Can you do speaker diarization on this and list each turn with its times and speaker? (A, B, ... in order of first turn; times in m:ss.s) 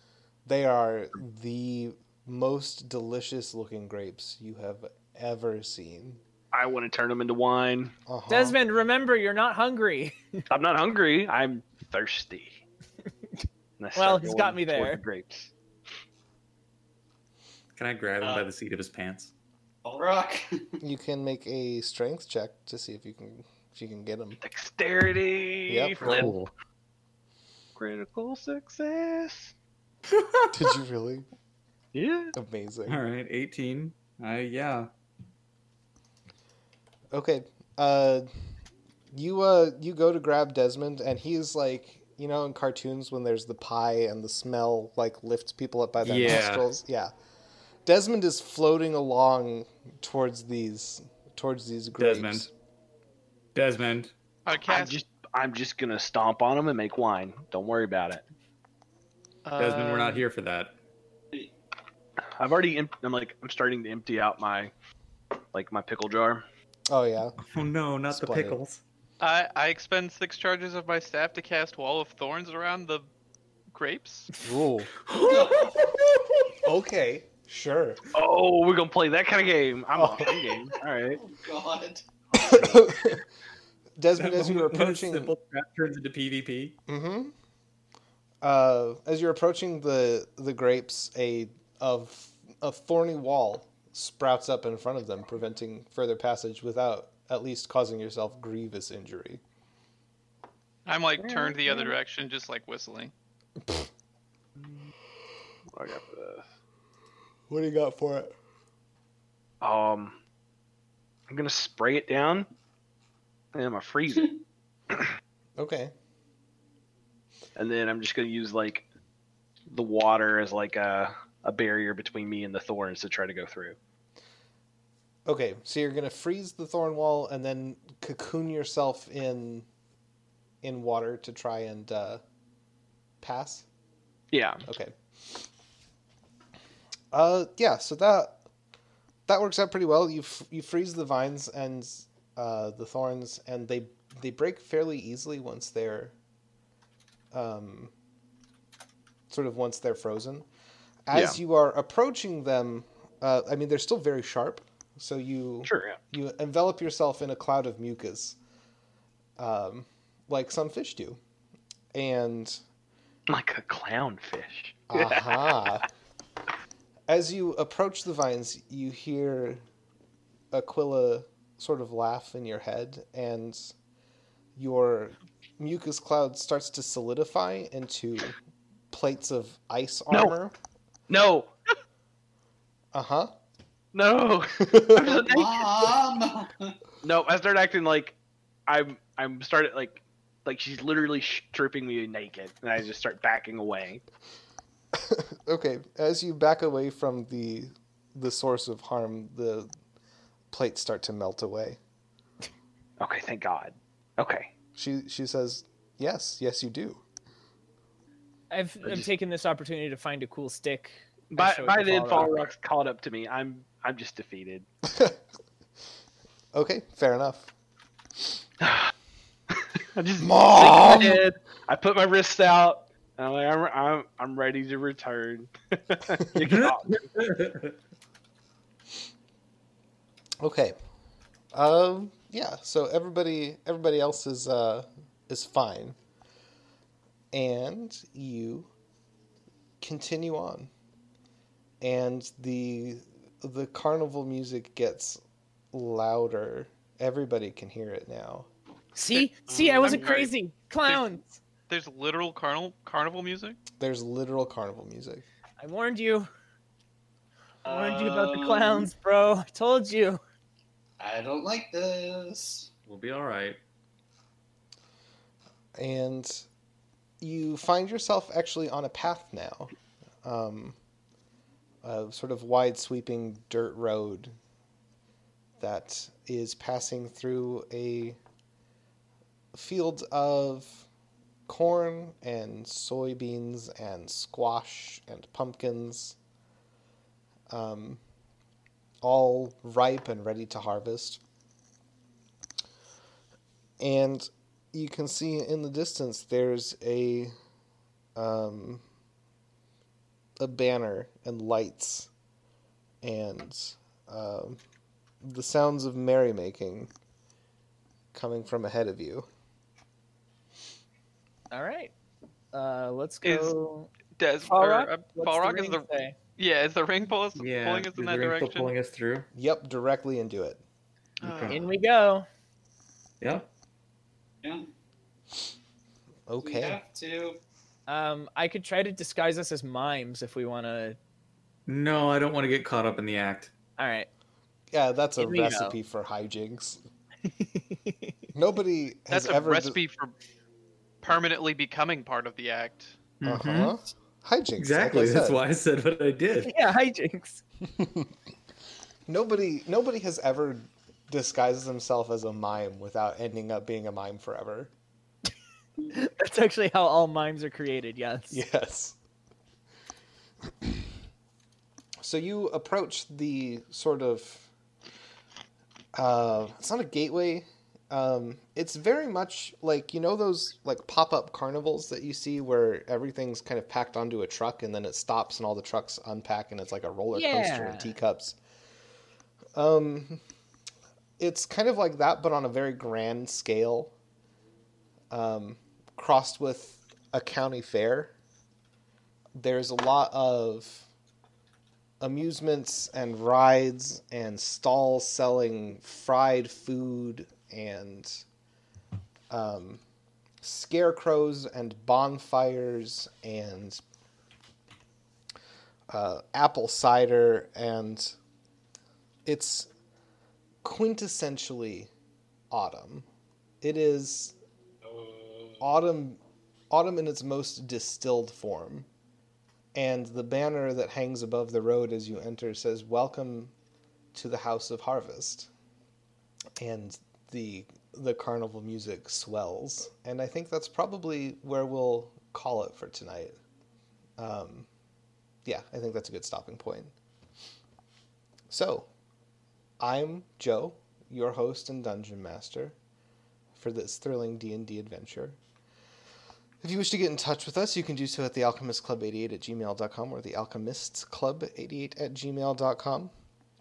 0:00.4-0:06.2 A
0:06.5-0:07.9 B
0:08.1-0:08.6 A
0:08.3-0:10.4 C
0:10.5-0:12.6 B
0:13.8-0:15.5 B
0:14.0-0:15.0 C
0:17.8-0:19.3 D
0:19.8-0:20.7 E
0:20.8-0:24.4 A
0:24.4-0:26.4 B
0:25.7-0:26.3 A
0:26.0-0:26.5 D
0:27.8-0:29.5 B
0:30.1-0:30.5 D
0:30.5-0:31.3 A
0:31.9-0:32.4 B
0:32.4-0:33.0 A
0:32.9-0:34.9 D
0:37.1-0:38.3 A
0:39.1-0:47.1 A
0:46.0-0:46.7 D
0:47.8-0:52.5 A
0:52.0-0:52.5 D
0:53.6-0:54.1 D
0:54.5-0:55.0 F
0:54.7-0:58.2 B
0:59.4-1:00.2 F
0:59.6-1:00.7 D
1:02.4-1:04.7 B
1:05.5-1:06.4 B
1:06.9-1:07.4 A
1:07.4-1:08.8 D
1:08.1-1:08.6 A
1:09.2-1:13.1 F
1:13.7-1:14.3 F
1:14.4-1:14.9 A
1:15.1-1:16.0 D
1:15.2-1:15.8 E
1:16.6-1:18.0 A
1:18.1-1:21.2 B
1:20.0-1:20.3 A
1:21.2-1:22.0 E
1:22.4-1:23.3 A
1:22.4-1:22.8 D
1:24.0-1:25.3 A
1:24.2-1:26.8 D
1:26.9-1:27.3 A
1:28.4-1:39.4 A
1:40.9-1:43.1 F
1:41.2-1:42.0 B
1:43.6-1:43.9 A
1:45.7-1:46.5 B
1:47.5-1:48.3 A
1:49.6-1:50.2 B
1:51.3-1:52.5 B
1:53.5-1:54.4 B
1:55.6-1:55.9 A
1:57.6-1:58.9 B
1:59.7-2:03.8 B
2:05.3-2:09.7 A
2:10.6-2:12.2 A
2:13.2-2:13.7 A
2:14.3-2:14.6 B
2:14.6-2:15.4 A
2:17.1-2:18.4 A
2:19.3-2:26.2 A
2:27.3-2:27.9 A
2:29.3-2:30.5 A
2:31.1-2:38.4 A
2:31.1-2:31.4 B
2:35.6-2:36.0 B
2:39.4-2:41.2 A
2:41.9-2:42.6 A
2:43.3-2:45.6 B
2:44.9-2:45.9 A
2:47.1-2:49.6 A
2:50.5-2:53.7 A
2:54.6-2:58.4 A
2:58.9-3:00.6 A
3:01.1-3:01.5 B
3:02.9-3:03.3 A
3:03.9-3:06.0 B
3:04.6-3:05.0 A
3:04.9-3:06.8 E
3:07.0-3:14.0 B
3:15.0-3:19.7 A
3:20.5-3:21.8 A
3:23.0-3:24.5 B
3:24.8-3:27.0 A
3:28.5-3:32.5 C
3:31.3-3:34.7 B
3:34.9-3:35.2 A
3:36.5-3:37.5 A
3:38.6-3:38.9 B
3:39.5-3:47.3 B
3:40.2-3:41.2 A
3:46.4-3:47.8 D
3:50.4-3:50.8 A
3:51.5-3:56.0 A
3:57.3-3:58.7 A
3:59.8-4:00.7 A
4:01.8-4:05.2 A
4:05.7-4:08.5 A
4:09.0-4:11.4 C
4:09.1-4:10.3 F
4:09.5-4:10.3 E
4:10.9-4:11.1 F
4:11.7-4:13.6 F
4:13.8-4:15.2 A
4:15.6-4:16.3 C
4:17.6-4:18.9 E
4:17.6-4:20.2 C
4:21.0-4:22.7 E
4:22.9-4:23.6 D
4:25.8-4:26.5 A
4:27.2-4:29.7 A
4:30.2-4:30.8 A
4:31.8-4:34.3 A
4:35.6-4:38.2 A
4:39.5-4:40.9 A
4:41.5-4:46.2 A
4:47.5-4:48.0 A
4:49.0-4:51.2 A
4:53.8-4:57.3 A
4:58.2-4:58.8 A
5:00.4-5:02.1 A
5:03.0-5:04.6 A
5:05.2-5:06.9 A
5:08.1-5:09.3 A
5:11.5-5:11.9 C
5:12.5-5:13.9 C
5:13.2-5:13.6 F
5:14.2-5:15.9 F
5:14.5-5:16.2 C
5:16.4-5:18.7 F
5:17.4-5:19.3 D
5:19.3-5:20.6 A
5:21.2-5:21.6 D
5:21.2-5:21.6 F
5:21.5-5:22.3 C
5:23.2-5:23.5 D
5:24.4-5:24.7 E
5:26.3-5:26.8 A
5:26.4-5:27.4 E
5:27.9-5:31.0 C
5:31.7-5:33.5 D
5:33.8-5:34.1 C
5:34.7-5:36.8 A
5:35.2-5:35.8 C
5:37.3-5:38.3 C
5:38.4-5:39.8 A
5:39.1-5:40.1 F
5:41.0-5:43.1 F
5:43.2-5:43.8 D
5:43.3-5:45.4 A
5:44.6-5:46.5 D
5:46.4-5:47.4 C
5:47.8-5:48.1 A
5:49.1-5:54.7 A
5:55.9-5:58.4 C
5:58.3-5:59.0 A
6:02.0-6:04.5 A
6:06.0-6:18.4 A
6:17.1-6:18.0 C
6:19.6-6:20.2 A
6:21.2-6:23.9 A
6:25.1-6:28.1 A
6:29.4-6:30.9 A
6:32.0-6:38.2 A
6:39.3-6:39.8 A
6:40.4-6:43.8 A
6:45.9-6:48.2 A
6:49.3-6:49.7 A
6:50.6-6:51.9 A
6:52.5-6:53.1 A
6:53.6-6:54.4 A
6:55.6-6:56.2 A
6:56.7-6:58.9 A
6:59.8-7:03.5 A
7:04.1-7:05.5 A
7:06.6-7:13.4 A
7:14.2-7:14.7 A
7:15.4-7:16.9 A
7:18.5-7:18.9 A
7:19.8-7:22.8 A
7:23.6-7:25.4 A
7:26.6-7:33.1 A